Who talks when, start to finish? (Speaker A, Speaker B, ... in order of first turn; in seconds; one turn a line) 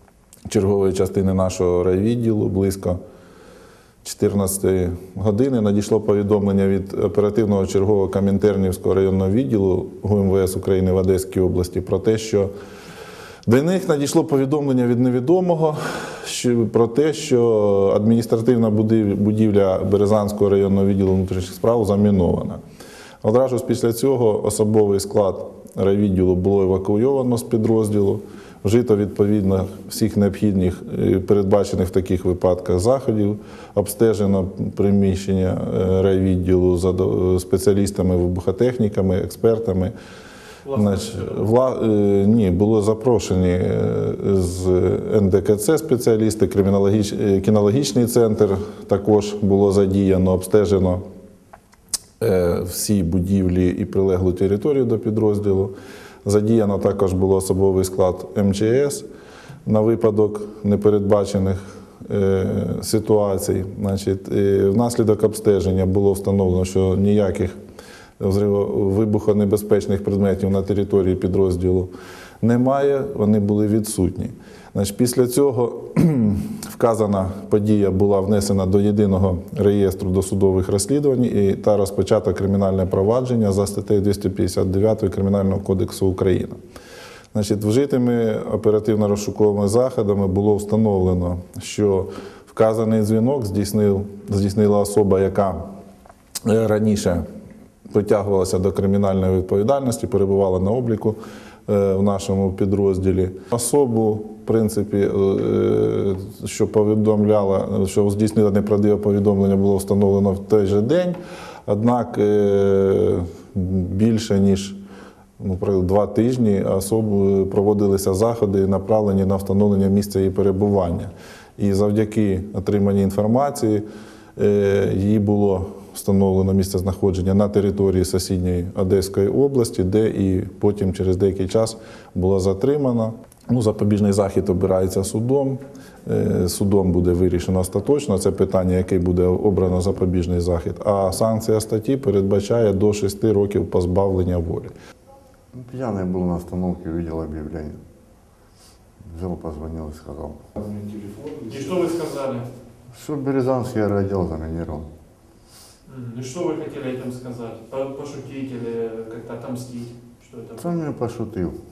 Speaker A: 0.5-3.0
Speaker A: 4.0-12.5
Speaker A: 13.5-22.6
Speaker A: 23.2-39.9
Speaker B: 40.6-41.4
Speaker A: 40.7-51.0
Speaker A: 52.2-55.7
Speaker A: 56.2-59.0
Speaker A: 59.7-67.5
Speaker A: 68.2-86.6
Speaker A: 87.3-95.6
Speaker A: 96.4-97.2
Speaker A: 97.9-114.8
Speaker A: 115.4-123.8
Speaker A: 124.4-144.7
Speaker C: 145.5-147.8
Speaker C: 149.0-150.4
Speaker A: 150.6-151.5
Speaker B: 151.5-152.5
Speaker C: 152.9-154.9
Speaker B: 155.9-160.8
Speaker C: 160.6-161.6